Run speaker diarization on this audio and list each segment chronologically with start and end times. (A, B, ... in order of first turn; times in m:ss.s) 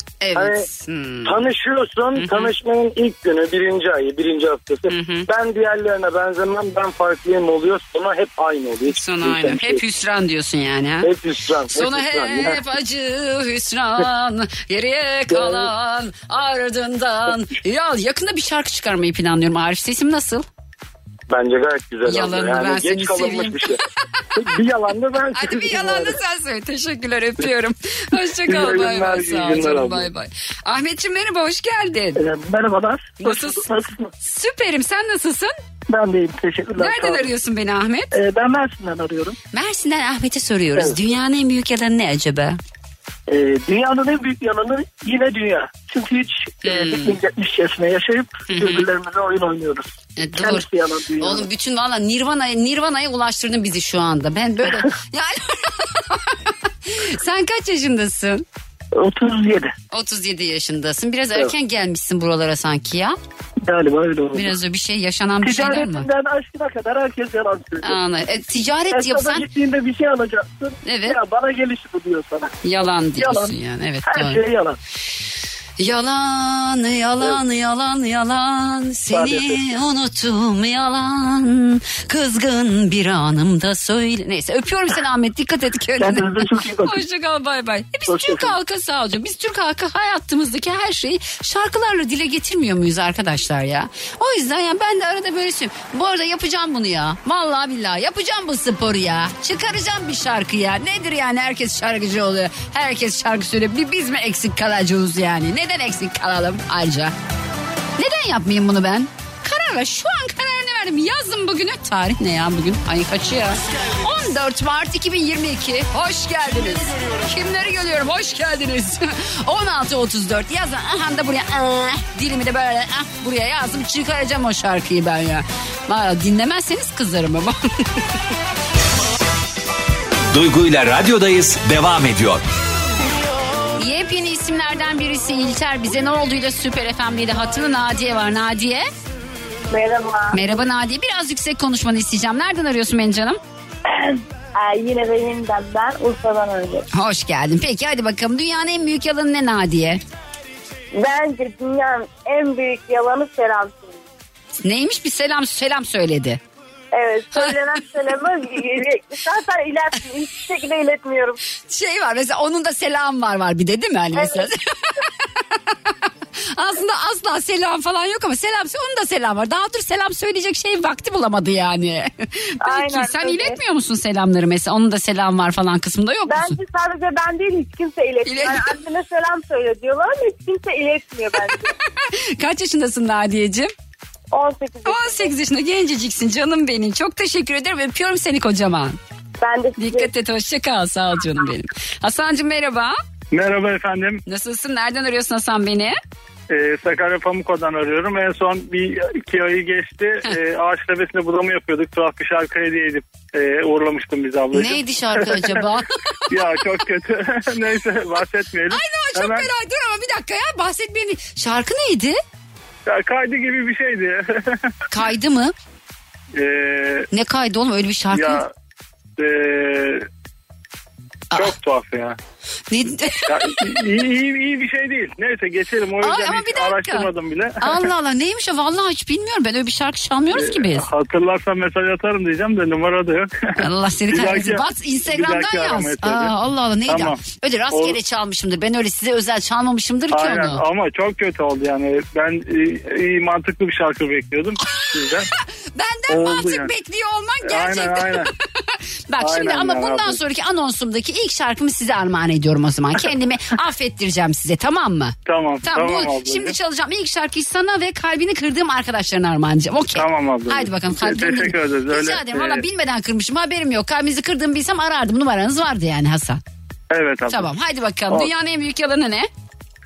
0:00.2-0:01.4 A
0:00.3-0:00.6 B
0:01.2-0:09.8 B
0:02.1-0:02.5 A
0:04.9-0:05.3 A
0:08.9-0:11.1 A
0:11.0-0:12.6 B
0:11.7-0:20.4 A
0:15.3-0:15.7 B
0:21.3-0:23.8 B
0:22.0-0:23.7 A
0:24.4-0:26.2 B
0:25.3-0:32.2 A
0:28.5-0:30.0 B
0:32.2-0:34.0 C
0:33.2-0:33.6 A
0:34.2-0:35.5 A
0:35.9-0:37.3 C
0:36.8-0:38.1 A
0:38.1-0:39.3 C
0:39.5-0:42.6 A
0:43.3-0:49.8 C
0:46.6-0:47.2 A
0:48.5-0:48.9 A
0:50.2-0:50.7 A
0:50.4-0:51.4 C
0:51.2-0:58.4 A
0:58.9-0:59.7 C
0:59.9-1:03.2 A
1:03.6-1:04.5 C
1:04.3-1:06.1 A
1:05.4-1:08.0 C
1:07.8-1:09.5 A
1:08.9-1:12.5 C
1:10.8-1:11.2 A
1:12.6-1:14.4 A
1:13.2-1:13.5 C
1:14.0-1:14.8 C
1:15.8-1:47.1 A
1:19.1-1:19.6 C
1:26.0-1:27.0 C
1:28.1-1:28.5 C
1:48.0-2:08.0 A
2:10.3-2:12.4 D
2:13.8-2:18.8 A
2:19.7-2:20.4 E
2:20.3-2:23.4 A
2:23.9-2:26.8 E
2:26.9-2:30.0 A
2:31.0-2:34.0 E
2:34.6-2:36.4 A
2:36.9-2:41.4 E
2:41.7-2:44.7 A
2:44.1-2:44.5 E
2:46.5-2:56.6 A
2:52.6-2:53.6 E
2:56.2-3:01.7 E
2:58.2-2:58.7 A
3:02.0-3:03.7 A
3:04.3-3:05.3 E
3:04.8-3:09.0 A
3:09.4-3:10.1 E
3:09.8-3:13.0 A
3:13.3-3:14.2 F
3:14.2-3:16.0 A
3:16.5-3:25.6 F
3:24.5-3:26.6 A
3:26.3-3:29.5 F
3:28.7-3:32.2 A
3:32.9-3:34.6 F
3:34.9-3:35.5 A
3:36.3-3:37.1 F
3:37.1-3:38.4 A
3:38.1-3:38.5 F
3:39.2-3:40.0 F
3:41.3-3:42.2 F
3:42.7-3:43.7 A
3:43.3-3:47.9 F
3:46.0-3:47.1 A
3:47.6-3:50.9 A
3:50.3-3:53.3 F
3:53.6-4:00.6 A
3:54.1-3:56.3 F
3:56.9-3:57.2 F
3:57.7-3:58.0 F
4:00.1-4:05.3 F
4:04.6-4:26.4 A
4:06.1-4:06.7 F
4:07.4-4:08.3 F
4:09.2-4:10.2 F
4:15.3-4:16.6 F
4:19.9-4:22.6 F
4:26.9-4:27.5 F
4:27.3-4:29.3 A